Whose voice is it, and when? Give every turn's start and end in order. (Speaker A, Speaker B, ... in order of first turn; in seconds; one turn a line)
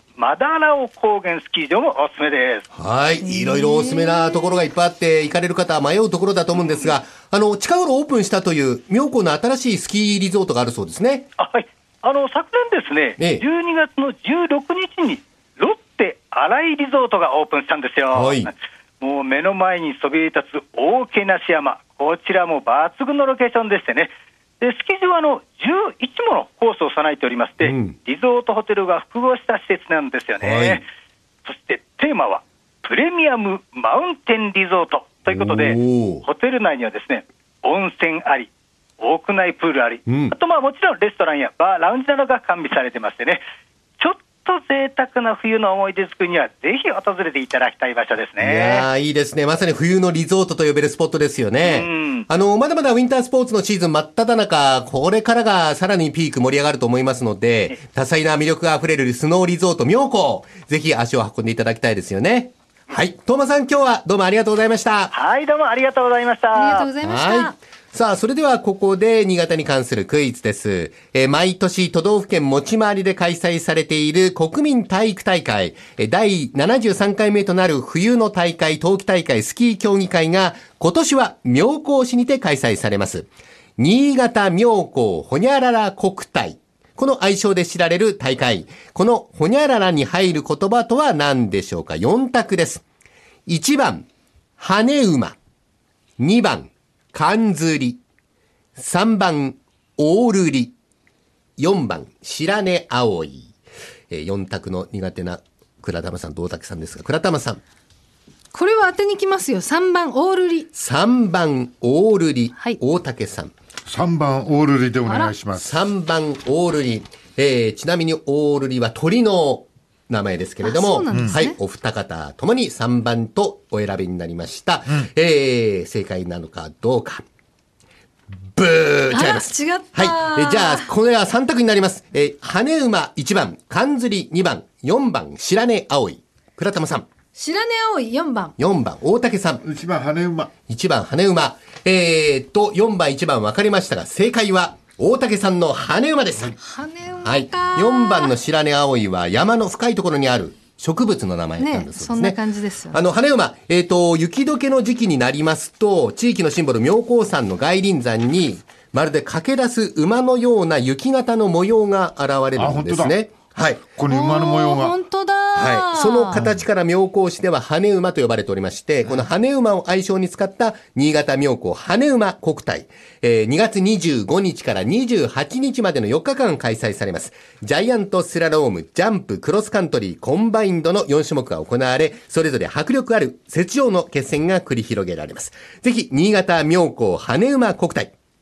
Speaker A: 0.1-2.7
Speaker B: 2.7-11.3
Speaker C: 3.2-4.5
Speaker A: 6.5-6.9
Speaker A: 11.4-30.9
Speaker B: 13.2-13.4
Speaker B: 18.1-18.5
Speaker B: 27.6-27.9
Speaker B: 30.4-30.8
Speaker A: 31.4-43.4
Speaker B: 35.3-36.2
Speaker B: 40.1-40.4
Speaker A: 44.0-48.9
Speaker B: 48.4-65.1
Speaker A: 51.6-52.3
Speaker A: 65.1-66.9
Speaker C: 66.5-67.5
Speaker B: 67.0-92.8
Speaker B: 93.5-94.1
Speaker B: 94.6-95.4
Speaker B: 96.2-98.0
Speaker B: 98.8-100.7
Speaker B: 101.6-103.5
Speaker B: 104.1-107.6
Speaker C: 108.5-110.7
Speaker B: 110.7-113.5
Speaker D: 113.9-115.7
Speaker C: 115.0-115.3
Speaker B: 115.5-127.2
Speaker C: 120.6-121.5
Speaker D: 121.1-121.3
Speaker B: 128.6-137.1
Speaker C: 129.1-130.9
Speaker C: 137.3-138.5
Speaker B: 138.6-139.6
Speaker D: 139.6-140.5
Speaker B: 140.7-146.6
Speaker C: 146.6-148.3
Speaker B: 147.2-163.9
Speaker C: 151.6-153.0
Speaker D: 162.6-163.2
Speaker D: 163.9-165.0
Speaker C: 164.1-166.5
Speaker B: 165.5-188.1